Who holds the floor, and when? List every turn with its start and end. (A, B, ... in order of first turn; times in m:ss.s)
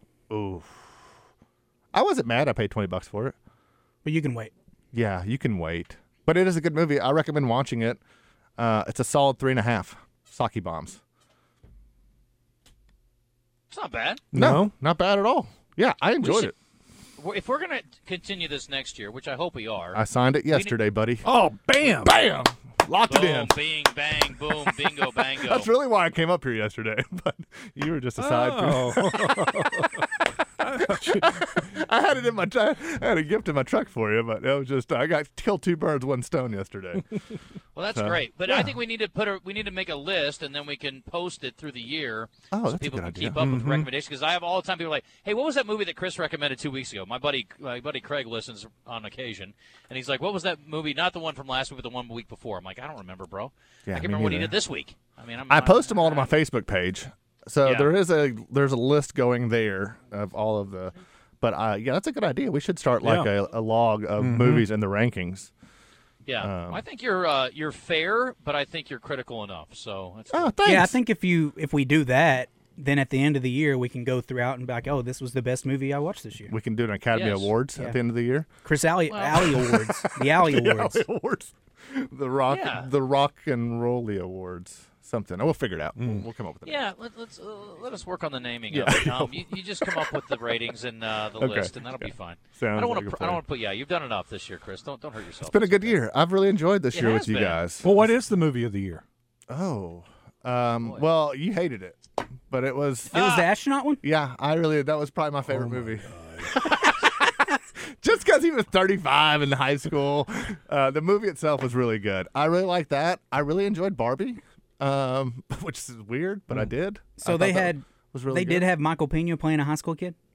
0:00.3-0:00.8 A
0:01.9-0:03.4 A
0:04.0-0:04.5 B
0:04.9-0:08.0 A
0:08.6-0:11.0 A
0:13.7-0:14.2 C
0:14.3-0:14.7 D
0:14.3-0:16.5 A
0:16.2-0:16.5 C
0:17.2-0:20.7 C
0:19.9-0:21.3 A
0:21.2-0:22.1 D
0:21.9-0:23.6 A
0:23.1-0:25.7 C
0:25.4-0:29.9 A
0:28.2-0:29.9 D
0:30.7-0:31.0 D
0:30.8-0:37.1 A
0:37.8-0:56.3 C
0:38.0-0:38.8 A
0:42.5-0:43.4 A
0:43.4-0:43.9 D
0:53.9-0:54.6 A
0:55.5-1:05.5 A
0:57.6-0:57.9 C
1:03.0-1:03.3 D
1:04.2-1:04.6 D
1:06.3-1:10.6 C
1:06.4-1:06.8 A
1:10.3-1:11.0 A
1:10.6-1:16.5 B
1:16.5-1:18.5 A
1:17.1-1:17.5 C
1:18.6-1:21.0 B
1:19.1-1:19.7 C
1:19.4-1:26.8 A
1:22.5-1:22.9 C
1:26.0-1:26.2 D
1:26.7-1:36.0 C
1:28.7-1:30.1 A
1:31.4-1:33.4 A
1:35.4-1:38.1 A
1:36.9-1:37.6 C
1:37.8-1:39.0 D
1:39.5-1:43.4 A
1:43.1-1:43.5 C
1:43.2-1:44.0 B
1:44.0-1:58.7 A
1:45.5-1:46.5 D
1:57.2-2:00.2 B